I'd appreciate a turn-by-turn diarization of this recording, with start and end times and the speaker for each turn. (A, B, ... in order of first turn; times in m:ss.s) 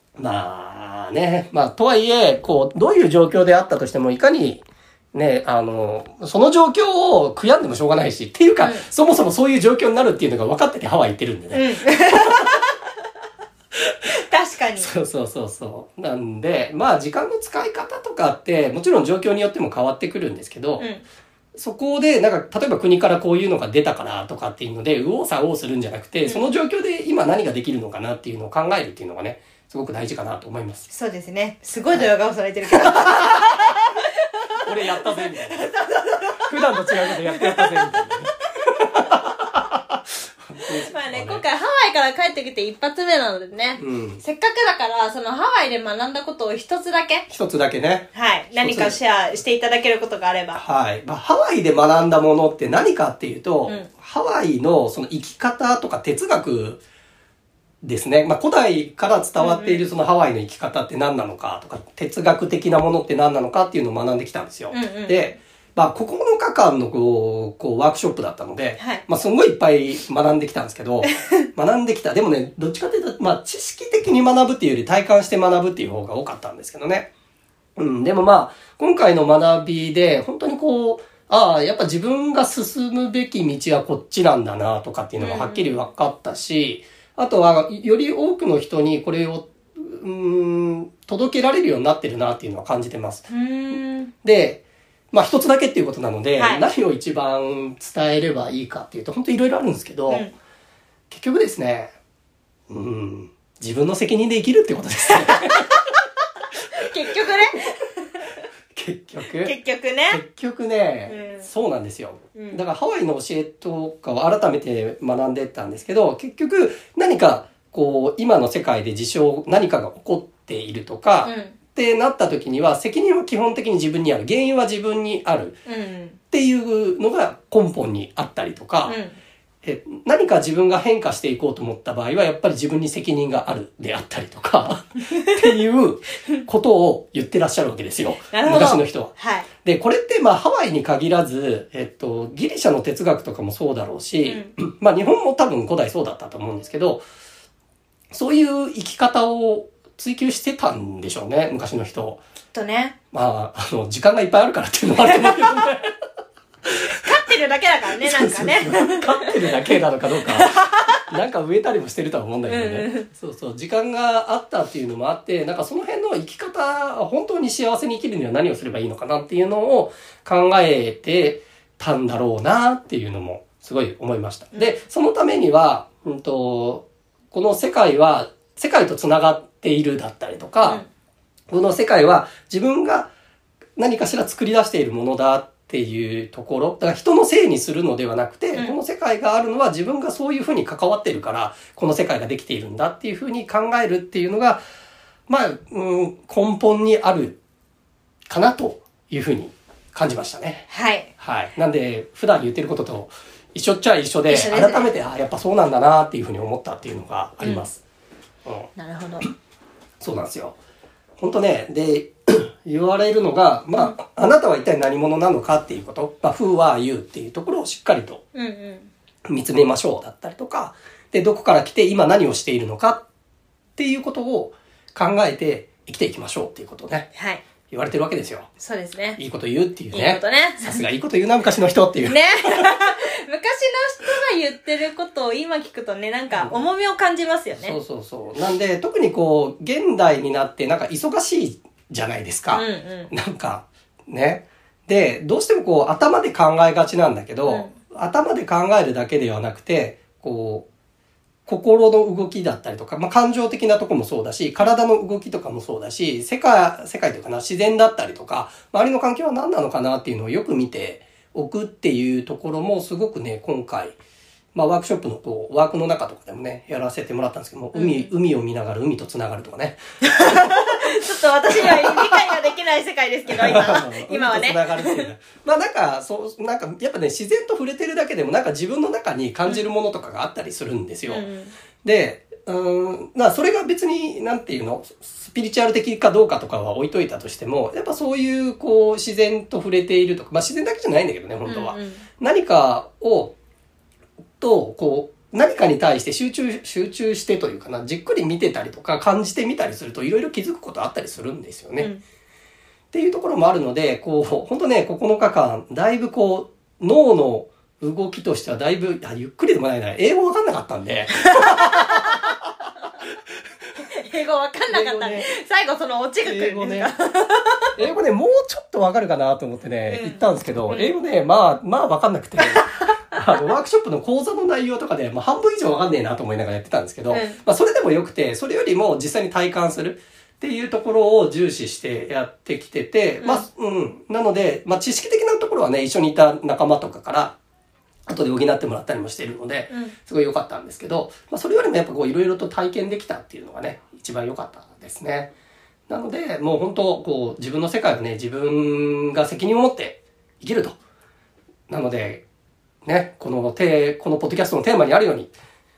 0:00.2-0:12.4 A
0:11.5-0:12.7 B
0:14.1-0:14.9 B
0:14.8-0:20.9 A
0:20.8-0:21.0 B
0:21.6-0:30.9 A
0:26.2-0:26.5 B
0:30.9-0:38.3 B
0:32.8-0:33.2 A
0:34.6-0:35.7 A
0:36.4-0:39.8 A
0:40.4-0:41.4 A
0:40.8-0:47.2 B
0:43.8-0:44.2 A
0:47.3-0:49.0 A
0:48.1-0:50.6 B
0:50.5-0:56.8 A
0:57.8-1:17.1 A
0:59.4-0:59.9 B
1:04.7-1:05.2 B
1:08.8-1:09.0 B
1:17.8-1:33.2 A
1:25.2-1:25.7 B
1:33.3-1:34.1 B
1:34.2-1:40.3 A
1:36.4-1:36.6 B
1:40.1-1:40.3 B
1:41.1-1:41.9 A
1:42.7-1:45.8 A
1:45.3-1:45.8 B
1:46.8-1:48.2 B
1:48.7-1:49.5 A
1:49.4-1:50.2 B
1:50.1-2:05.6 A
1:51.1-1:51.5 B
1:52.3-1:52.6 B
2:01.2-2:01.6 B
2:05.6-2:06.2 B
2:06.3-2:09.0 A
2:08.8-2:09.2 B
2:09.6-2:27.0 A
2:18.3-2:19.5 B
2:24.2-2:24.5 B
2:28.1-2:32.2 A
2:32.5-2:32.9 B
2:33.1-2:35.9 A
2:35.0-2:35.6 B
2:36.9-2:39.7 B
2:38.0-3:00.8 A
2:40.3-2:41.0 B
2:42.5-2:43.1 B
3:00.6-3:00.9 B
3:01.5-3:03.1 A
3:03.8-3:14.6 A
3:15.3-3:17.4 A
3:18.3-3:20.6 A
3:20.7-3:21.1 B
3:21.2-3:27.8 A
3:24.3-3:24.9 B
3:27.4-3:27.7 B
3:28.4-3:28.7 A
3:28.8-3:29.3 B
3:30.0-3:30.6 A
3:31.2-3:38.2 A
3:38.3-3:38.9 B
3:39.3-3:43.0 A
3:43.8-3:47.1 A
3:47.1-3:47.4 B
3:47.7-3:48.5 A
3:48.6-3:49.2 B
3:49.2-3:52.7 A
3:49.9-3:50.8 B
3:52.0-3:57.8 B
3:57.6-4:10.7 A
4:02.5-4:03.1 B
4:07.4-4:07.7 B
4:11.4-4:24.0 A
4:24.5-4:30.8 A
4:27.7-4:28.1 B
4:30.0-4:35.0 B
4:31.6-4:32.3 A
4:33.3-4:41.2 A
4:41.1-4:41.6 B
4:41.8-4:53.3 A
4:51.4-4:52.0 B
4:54.4-5:01.9 A
5:02.9-5:12.2 A
5:11.2-5:12.2 B
5:13.8-5:17.8 B
5:14.7-5:15.3 A
5:16.2-5:16.9 A
5:17.8-5:37.3 A
5:19.9-5:20.9 B
5:27.1-5:27.4 B
5:38.1-5:45.3 A
5:39.7-5:39.9 B
5:45.9-5:50.8 A
5:51.7-5:52.2 A
5:52.8-5:55.3 A